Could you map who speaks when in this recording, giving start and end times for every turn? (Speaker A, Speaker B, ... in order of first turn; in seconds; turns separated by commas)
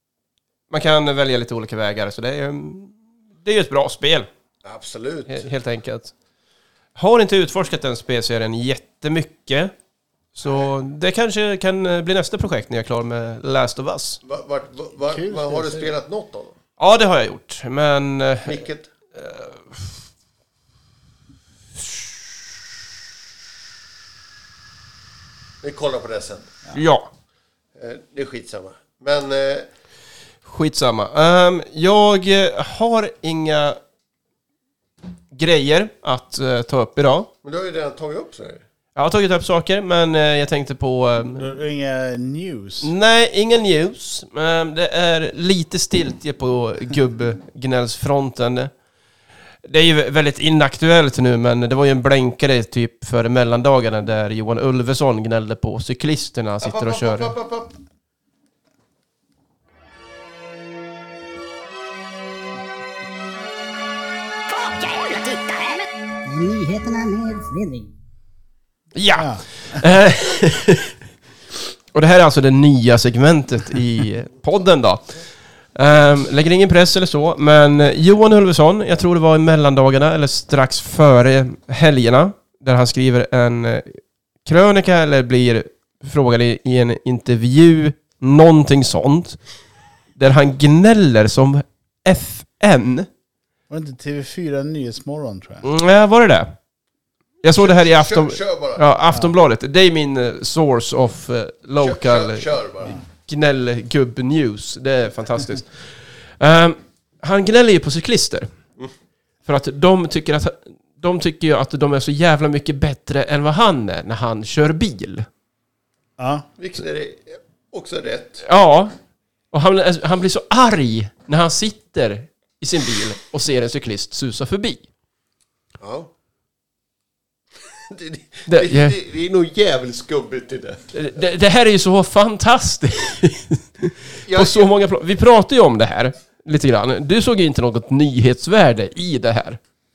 Speaker A: 0.7-4.3, Speaker B: 4.7-5.5, Speaker A: 5.3-6.1, Speaker A: 7.0-9.7, Speaker A: 10.4-14.2, Speaker B: 10.4-10.7, Speaker B: 14.2-16.6, Speaker C: 15.0-15.9, Speaker A: 16.8-18.6, Speaker B: 18.4-18.9, Speaker A: 19.2-19.8, Speaker B: 25.6-26.5, Speaker A: 26.7-27.1, Speaker B: 27.8-29.7, Speaker A: 30.4-33.8, Speaker A: 35.3-37.3, Speaker B: 37.4-38.6, Speaker A: 39.0-41.4, Speaker C: 41.4-42.9, Speaker A: 42.8-48.7, Speaker A: 49.6-57.3, Speaker B: 56.6-57.8, Speaker D: 64.5-68.0, Speaker A: 69.0-71.0, Speaker C: 69.2-69.4, Speaker A: 71.9-75.1, Speaker A: 75.8-89.4, Speaker A: 90.2-93.1, Speaker C: 93.7-95.7, Speaker A: 95.6-96.5, Speaker A: 97.4-102.5, Speaker B: 97.5-98.8, Speaker B: 101.8-103.0, Speaker A: 103.2-105.9, Speaker A: 106.4-108.5, Speaker A: 109.5-115.3, Speaker C: 116.2-116.5, Speaker B: 116.6-118.5, Speaker A: 118.5-118.9, Speaker A: 119.5-124.8, Speaker B: 125.8-126.1, Speaker B: 127.8-130.9, Speaker A: 128.5-128.9, Speaker A: 130.9-139.6, Speaker B: 134.3-134.7